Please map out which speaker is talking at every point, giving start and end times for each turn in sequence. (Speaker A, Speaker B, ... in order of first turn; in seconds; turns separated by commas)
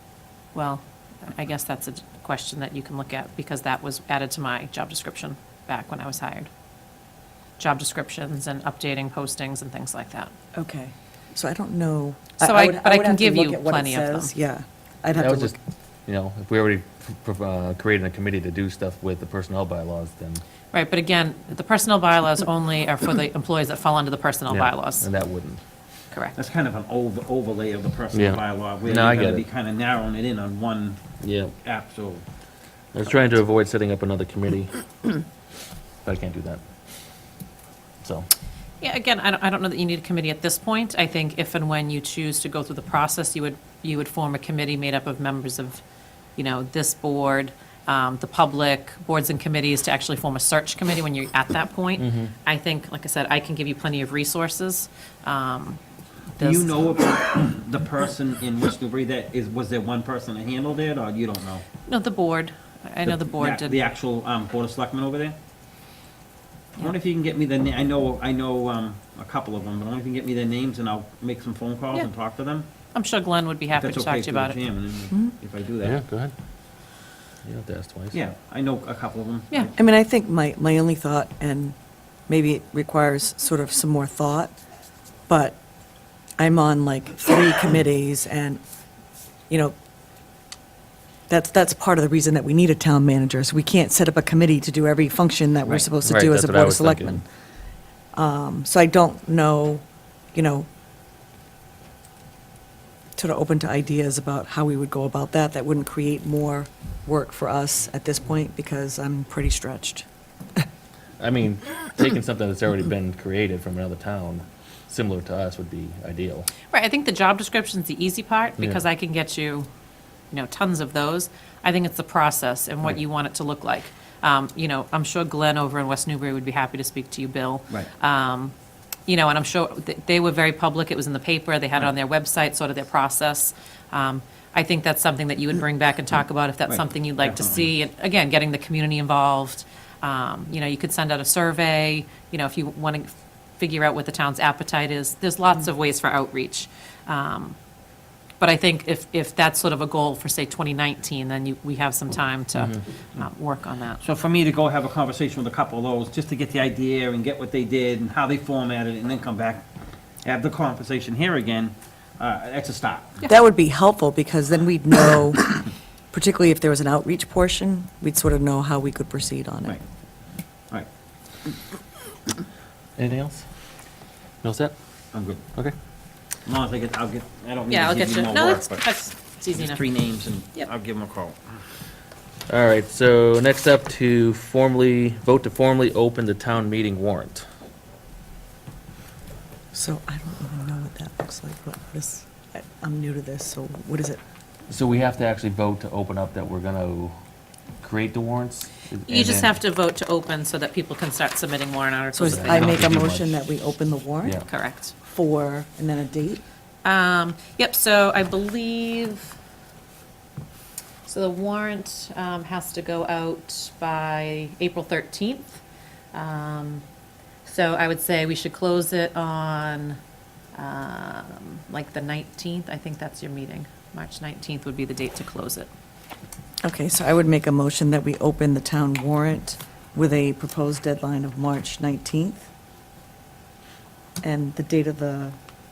Speaker A: 0.5-6.5, Speaker A: 7.6-10.3, Speaker B: 10.6-15.6, Speaker A: 12.4-14.3, Speaker C: 15.2-20.4, Speaker A: 20.7-25.1, Speaker C: 24.5-25.6, Speaker A: 26.1-26.4, Speaker D: 26.4-31.0, Speaker C: 28.1-29.4, Speaker C: 31.2-31.5, Speaker D: 31.6-32.2, Speaker C: 32.9-35.1, Speaker C: 36.0-36.6, Speaker C: 38.0-38.3, Speaker A: 38.8-45.8, Speaker A: 46.4-55.8, Speaker C: 52.0-52.3, Speaker A: 56.4-56.7, Speaker D: 56.4-61.6, Speaker A: 61.9-63.8, Speaker D: 63.0-65.4, Speaker D: 66.8-72.7, Speaker A: 72.9-74.6, Speaker D: 73.8-76.0, Speaker C: 75.8-76.3, Speaker C: 77.5-78.2, Speaker D: 78.1-79.7, Speaker B: 79.8-81.8, Speaker B: 82.3-84.5, Speaker B: 85.3-85.6, Speaker B: 86.4-88.6, Speaker B: 89.5-89.7, Speaker B: 91.3-97.2, Speaker C: 96.0-97.2, Speaker B: 98.1-99.8, Speaker B: 100.3-100.7, Speaker B: 103.2-110.1, Speaker C: 111.2-116.5, Speaker A: 116.7-119.7, Speaker A: 120.3-128.5, Speaker A: 129.1-147.6, Speaker D: 136.7-137.7, Speaker A: 148.4-154.0, Speaker D: 154.0-159.7, Speaker D: 160.2-163.2, Speaker B: 163.3-169.8, Speaker C: 173.0-173.4, Speaker C: 174.4-174.8, Speaker D: 175.1-175.4, Speaker D: 176.4-178.8, Speaker A: 177.7-179.8, Speaker D: 179.5-181.6, Speaker C: 182.5-187.5, Speaker B: 189.7-194.2, Speaker C: 194.7-197.2, Speaker C: 197.8-199.6, Speaker A: 199.1-202.8, Speaker B: 202.1-204.4, Speaker C: 202.2-203.3, Speaker A: 204.5-204.9, Speaker B: 205.0-206.4, Speaker A: 206.8-209.3, Speaker A: 211.1-215.6, Speaker A: 216.1-216.8, Speaker A: 217.4-220.0, Speaker A: 220.6-225.7, Speaker B: 226.6-232.5, Speaker B: 234.2-235.3